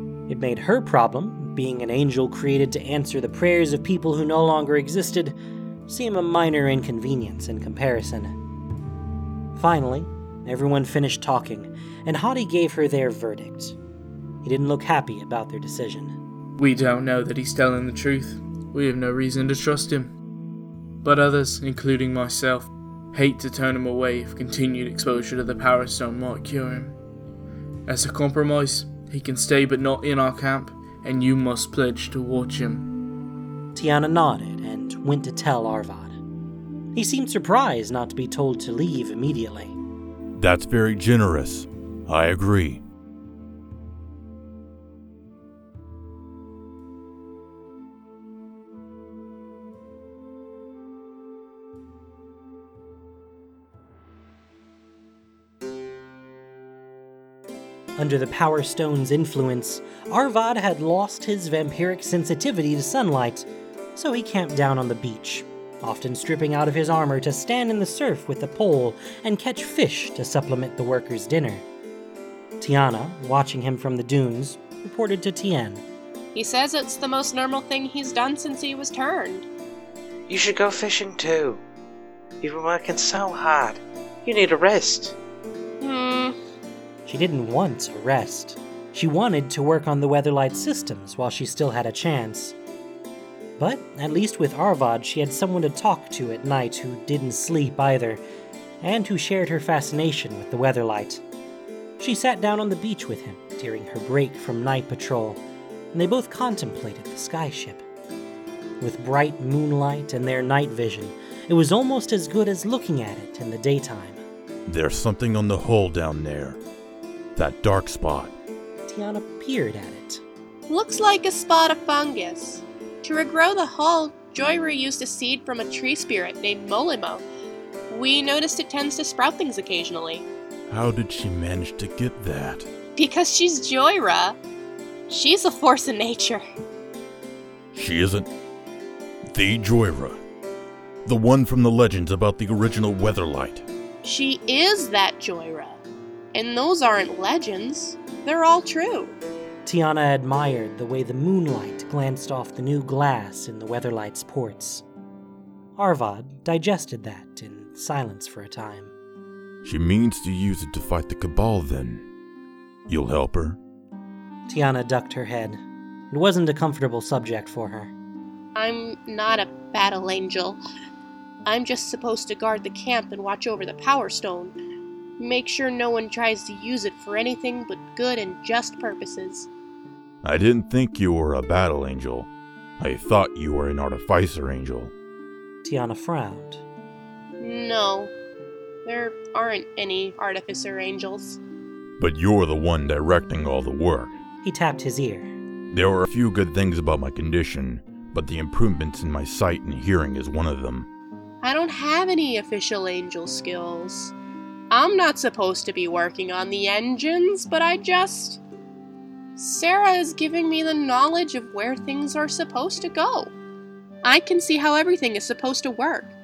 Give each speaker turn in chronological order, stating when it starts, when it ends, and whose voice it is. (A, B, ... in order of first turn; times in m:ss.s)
0:00.3-0:08.4 A
0:09.6-0:13.8 A
0:14.4-0:16.2 A
0:16.6-0:20.1 B
0:21.0-0:27.0 B
0:27.9-0:32.9 B
0:33.8-0:36.2 A
0:37.0-0:39.8 A
0:40.4-0:42.8 C
0:58.0-1:11.6 A
1:12.6-1:15.8 A
1:16.4-1:19.5 D
1:20.3-1:21.6 E
1:22.4-1:25.2 E
1:25.8-1:26.4 D
1:27.1-1:32.6 A
1:33.6-1:38.2 A
1:38.8-1:41.2 A
1:42.0-1:45.4 A
1:45.9-1:47.8 A
1:48.8-1:54.2 A
1:54.7-1:56.6 C
1:57.4-1:58.4 C
1:58.9-2:00.2 A
2:00.7-2:07.2 D
2:07.9-2:10.3 D
2:10.7-2:12.7 C
2:13.0-2:14.4 D
2:15.1-2:16.4 D
2:17.7-2:18.3 C
2:19.3-2:20.2 C
2:21.0-2:23.7 C
2:24.0-2:25.8 D
2:26.3-2:29.1 D
2:29.6-2:34.8 A
2:35.8-2:38.9 A
2:39.6-2:42.1 C
2:42.9-2:43.6 C
2:44.5-2:47.9 A
2:48.6-2:50.6 D
2:51.5-2:54.6 D
2:55.2-2:59.5 D
3:00.2-3:04.9 C
3:05.6-3:06.6 A
3:07.4-3:08.1 D
3:08.8-3:11.4 D
3:12.0-3:14.2 C
3:14.4-3:15.3 A
3:15.7-3:20.9 C
3:21.4-3:24.1 D
3:24.7-3:28.4 D
3:29.4-3:33.3 D
3:34.0-3:36.1 D